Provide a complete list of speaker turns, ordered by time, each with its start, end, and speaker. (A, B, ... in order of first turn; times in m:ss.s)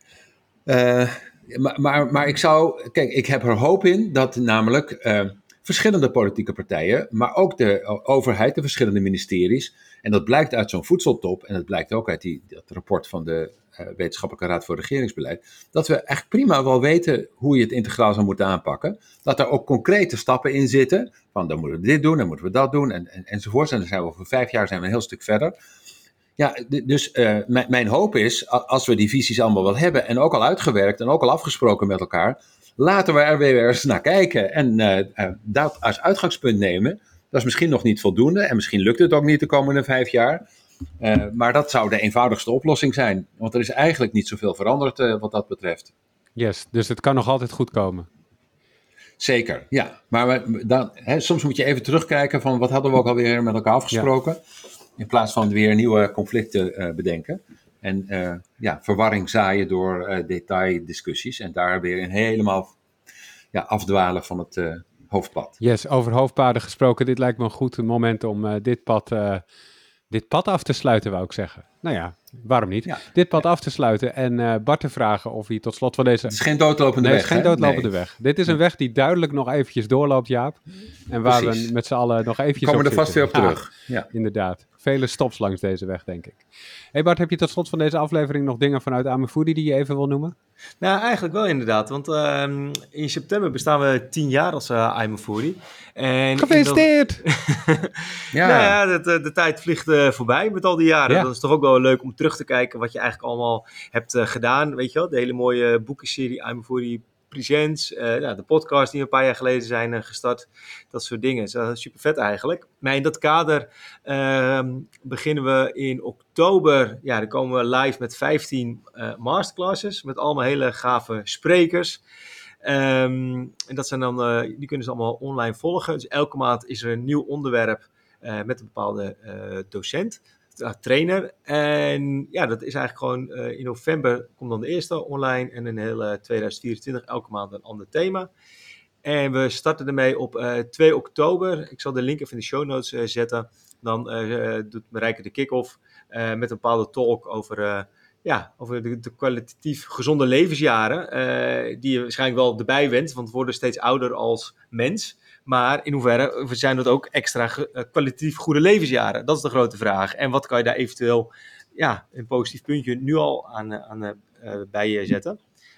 0:00.7-0:25.5 A
0:26.4-0:40.4 A
0:41.0-0:45.9 A
0:46.4-0:48.1 B
0:49.2-0:54.4 A
0:55.0-1:02.7 A
1:03.5-1:05.6 A
1:05.6-1:09.4 B
1:10.1-1:16.4 B
1:16.3-1:17.9 A
1:17.0-1:30.3 B
1:21.2-1:21.7 A
1:22.6-1:24.1 A
1:30.8-1:37.9 C
1:36.4-1:37.2 B
1:38.3-1:38.8 A
1:38.4-2:02.0 C
2:02.6-2:18.3 C
2:19.0-2:45.4 C